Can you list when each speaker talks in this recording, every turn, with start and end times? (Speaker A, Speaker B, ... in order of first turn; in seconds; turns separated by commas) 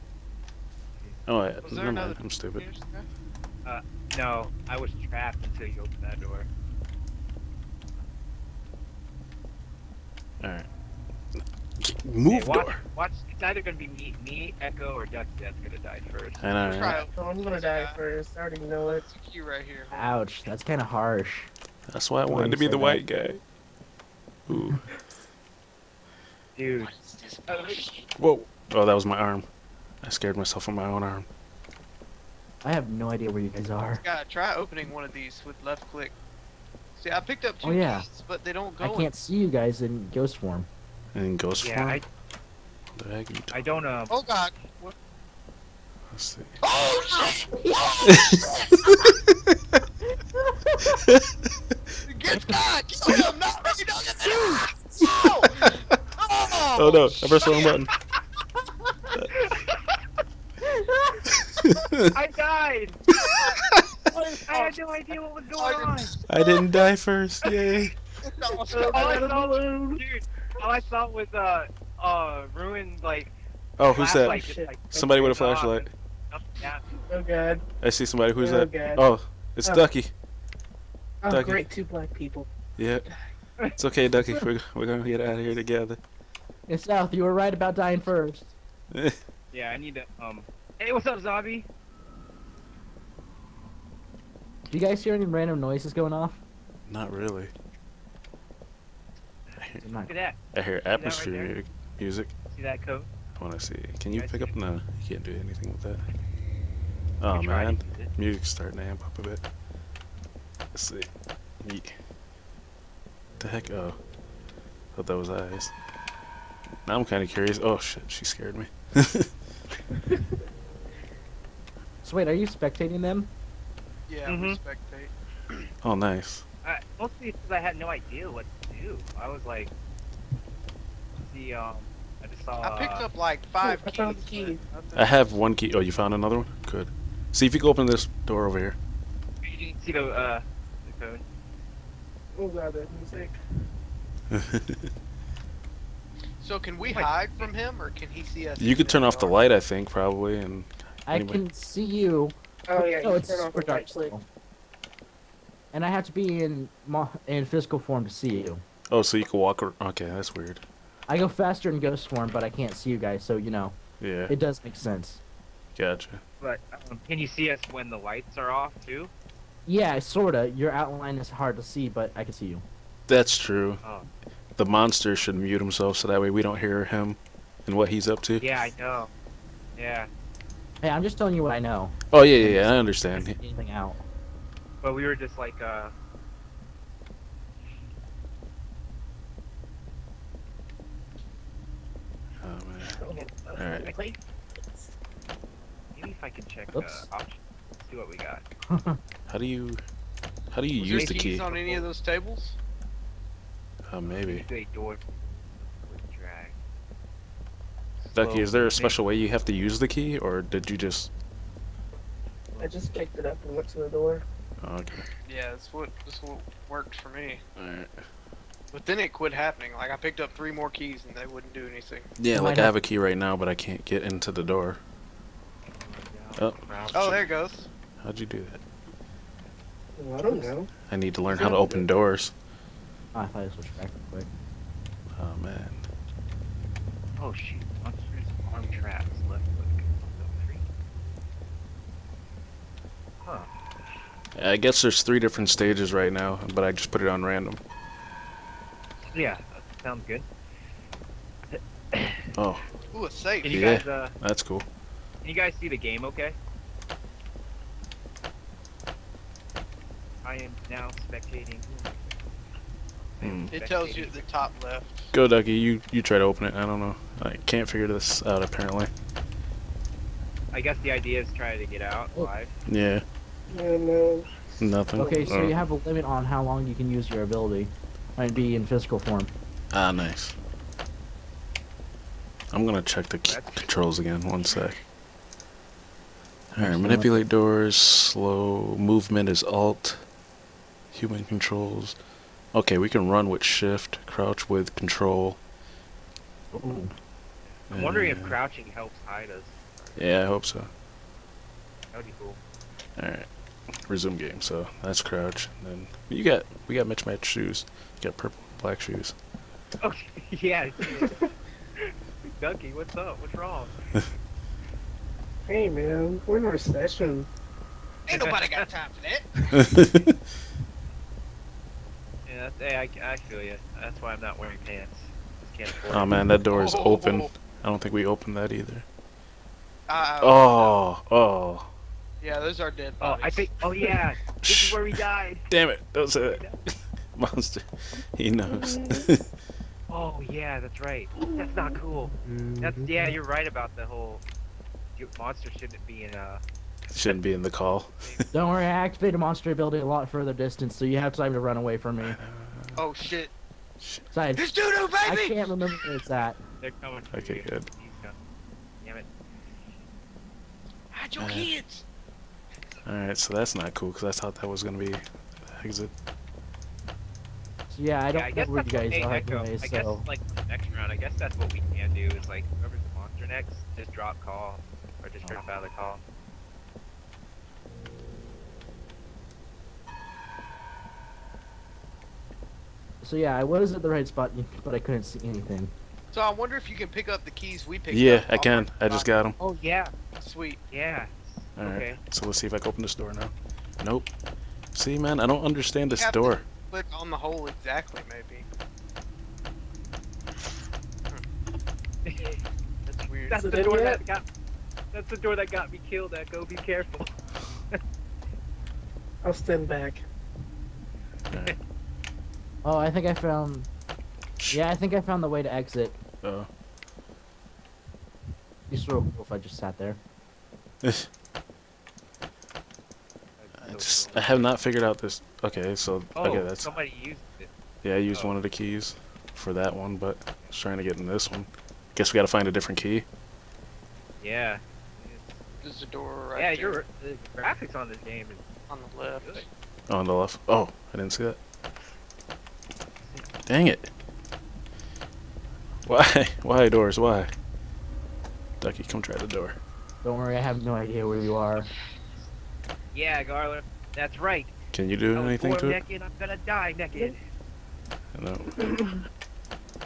Speaker A: 1.2-2.6, Speaker B: 1.6-3.1, Speaker C: 3.6-6.5, Speaker A: 10.4-10.7, Speaker A: 11.8-12.8, Speaker C: 12.3-17.0, Speaker A: 16.4-17.0, Speaker B: 16.6-18.0, Speaker D: 17.0-19.1, Speaker B: 18.8-20.2, Speaker E: 19.9-21.5, Speaker A: 21.9-23.4, Speaker E: 22.3-23.1, Speaker A: 24.5-24.8, Speaker E: 24.5-24.8, Speaker C: 26.6-26.9, Speaker B: 26.8-27.4, Speaker C: 27.5-28.0, Speaker A: 28.2-29.5, Speaker A: 30.0-31.3, Speaker E: 32.6-34.0, Speaker B: 34.0-36.1, Speaker B: 37.0-39.1, Speaker E: 37.6-38.0, Speaker E: 38.8-40.7, Speaker A: 41.1-42.0, Speaker C: 41.6-42.0, Speaker A: 42.9-43.6, Speaker C: 43.5-44.1, Speaker B: 44.1-44.9, Speaker A: 46.1-46.5, Speaker B: 46.6-48.1, Speaker A: 48.1-49.0, Speaker E: 50.4-50.9, Speaker B: 52.0-57.1, Speaker A: 56.7-57.9, Speaker C: 59.3-60.0, Speaker A: 61.6-62.0, Speaker C: 62.1-63.0, Speaker C: 64.5-66.1, Speaker B: 64.5-64.8, Speaker B: 65.5-66.2, Speaker A: 66.3-67.9, Speaker B: 68.2-69.2, Speaker D: 68.5-70.0, Speaker C: 68.9-73.3, Speaker A: 73.8-75.9, Speaker C: 73.9-76.8, Speaker D: 74.3-74.7, Speaker D: 77.1-77.6, Speaker A: 77.8-80.1, Speaker D: 78.3-79.0, Speaker D: 81.2-82.5, Speaker A: 81.2-81.6, Speaker A: 82.8-83.0, Speaker A: 83.8-86.0, Speaker E: 86.7-88.5, Speaker A: 88.9-89.2, Speaker C: 89.5-91.7, Speaker E: 94.7-96.4, Speaker A: 96.9-97.5, Speaker C: 99.5-101.6, Speaker E: 99.8-100.1, Speaker A: 100.5-102.3, Speaker C: 102.5-103.1, Speaker A: 103.4-106.0, Speaker C: 104.1-104.5, Speaker A: 107.2-109.4, Speaker C: 107.3-108.1, Speaker A: 110.7-111.1, Speaker A: 111.6-111.9, Speaker A: 113.4-114.0, Speaker A: 114.9-115.7, Speaker A: 116.8-119.3, Speaker E: 122.0-123.3, Speaker B: 124.1-125.6, Speaker C: 124.2-124.6, Speaker A: 125.8-126.4, Speaker C: 126.6-129.7, Speaker C: 131.2-133.1, Speaker B: 132.6-135.3, Speaker D: 133.6-134.6, Speaker A: 134.9-138.8, Speaker C: 139.4-141.2, Speaker D: 142.3-143.3, Speaker A: 144.3-144.8, Speaker B: 146.4-149.4, Speaker C: 146.8-147.5, Speaker A: 148.6-151.4, Speaker E: 151.1-154.2, Speaker D: 152.7-154.1, Speaker E: 155.7-158.6, Speaker A: 158.9-160.6, Speaker E: 161.1-163.8, Speaker A: 164.0-164.3, Speaker E: 164.3-165.2, Speaker A: 165.8-166.2, Speaker C: 166.4-169.1, Speaker E: 169.7-172.6, Speaker A: 173.1-173.8, Speaker C: 173.8-174.1, Speaker A: 174.6-178.5, Speaker C: 178.4-179.1, Speaker C: 179.8-180.1, Speaker E: 180.8-184.0, Speaker A: 182.1-183.4, Speaker C: 184.8-185.9, Speaker A: 192.4-193.0, Speaker D: 192.8-194.2, Speaker C: 193.0-194.1, Speaker A: 193.5-193.9, Speaker C: 195.9-198.5, Speaker E: 196.7-197.1, Speaker E: 198.7-199.0, Speaker A: 199.3-199.8, Speaker A: 200.5-201.5, Speaker B: 200.8-202.6, Speaker C: 200.8-201.9, Speaker A: 203.9-204.4, Speaker C: 204.0-206.6, Speaker C: 208.0-209.1, Speaker A: 208.1-211.1, Speaker D: 212.6-214.2, Speaker A: 214.6-215.1, Speaker B: 215.2-217.4, Speaker A: 217.6-218.0, Speaker B: 218.7-222.1, Speaker A: 222.2-224.8, Speaker E: 222.3-222.7, Speaker C: 225.7-227.3, Speaker A: 226.4-227.2, Speaker B: 226.9-227.7, Speaker A: 228.0-228.6, Speaker D: 229.9-230.7, Speaker E: 230.3-230.5, Speaker A: 230.9-232.3, Speaker D: 231.3-231.9, Speaker E: 233.1-234.3, Speaker A: 235.1-235.9, Speaker C: 237.2-240.6, Speaker C: 243.2-243.5, Speaker A: 244.3-247.6, Speaker C: 249.1-250.3, Speaker C: 251.5-252.3, Speaker A: 252.3-252.7, Speaker B: 252.9-253.6, Speaker C: 253.4-254.2, Speaker A: 253.5-254.7, Speaker C: 255.2-256.4, Speaker C: 260.2-262.2, Speaker C: 263.1-264.2, Speaker A: 263.2-263.5, Speaker B: 263.5-265.1, Speaker A: 265.1-268.9, Speaker C: 270.5-272.5, Speaker A: 272.7-273.0, Speaker D: 273.5-274.4, Speaker A: 274.6-275.6, Speaker E: 274.9-279.3, Speaker D: 275.0-275.3, Speaker A: 279.7-280.4, Speaker A: 282.5-284.8, Speaker C: 283.2-283.8, Speaker A: 286.5-290.1, Speaker E: 286.6-287.2, Speaker A: 290.9-292.0, Speaker A: 292.5-295.4, Speaker E: 296.5-296.9, Speaker C: 297.7-300.2, Speaker A: 297.7-298.3, Speaker A: 299.9-300.7, Speaker C: 301.9-302.4, Speaker A: 303.0-303.3, Speaker A: 303.9-309.1, Speaker C: 309.8-313.7, Speaker D: 315.5-317.3, Speaker B: 318.1-319.3, Speaker C: 318.1-318.7, Speaker A: 319.6-320.1, Speaker C: 322.3-326.2, Speaker A: 325.9-328.8, Speaker E: 326.1-326.4, Speaker B: 326.5-327.3, Speaker B: 329.9-330.8, Speaker A: 330.2-331.7, Speaker B: 332.2-333.9, Speaker C: 333.0-335.4, Speaker A: 334.4-334.8, Speaker A: 335.5-336.4, Speaker C: 336.2-336.6, Speaker A: 337.1-339.2, Speaker D: 338.7-339.0, Speaker C: 339.9-344.2, Speaker C: 344.9-346.4, Speaker A: 346.9-348.2, Speaker E: 348.3-352.2, Speaker A: 352.0-353.1, Speaker B: 352.8-353.3, Speaker A: 353.8-354.0, Speaker E: 354.1-354.5, Speaker B: 354.4-355.8, Speaker E: 355.0-356.4, Speaker C: 356.6-358.2, Speaker A: 357.1-357.7, Speaker C: 358.8-359.1, Speaker B: 360.9-361.8, Speaker A: 361.2-361.5, Speaker A: 362.8-365.9, Speaker E: 367.7-370.1, Speaker C: 368.1-376.0, Speaker E: 383.0-385.7, Speaker B: 386.1-389.1, Speaker A: 387.9-389.4, Speaker C: 389.4-389.9, Speaker B: 390.2-390.6, Speaker C: 390.7-392.0, Speaker A: 391.6-394.1, Speaker A: 394.7-396.4, Speaker B: 395.9-398.4, Speaker C: 402.1-402.4, Speaker B: 402.9-403.7, Speaker C: 402.9-404.2, Speaker D: 403.3-404.0, Speaker C: 404.9-407.1, Speaker D: 409.2-410.0, Speaker E: 412.6-413.7, Speaker E: 414.5-416.0, Speaker A: 416.2-416.5, Speaker E: 418.7-420.0, Speaker A: 420.8-421.1, Speaker C: 423.4-424.5, Speaker A: 423.6-426.7, Speaker C: 426.1-427.5, Speaker A: 427.8-433.1, Speaker C: 428.1-428.4, Speaker C: 434.2-435.4, Speaker B: 435.6-436.8, Speaker C: 436.3-438.5, Speaker B: 438.7-439.4, Speaker C: 439.2-439.5, Speaker A: 439.9-441.4, Speaker C: 443.0-443.4, Speaker A: 443.5-443.9, Speaker A: 445.9-447.3, Speaker A: 448.6-449.6, Speaker E: 450.0-451.7, Speaker C: 452.9-454.6, Speaker A: 454.7-455.8, Speaker C: 455.1-457.2, Speaker A: 458.1-458.8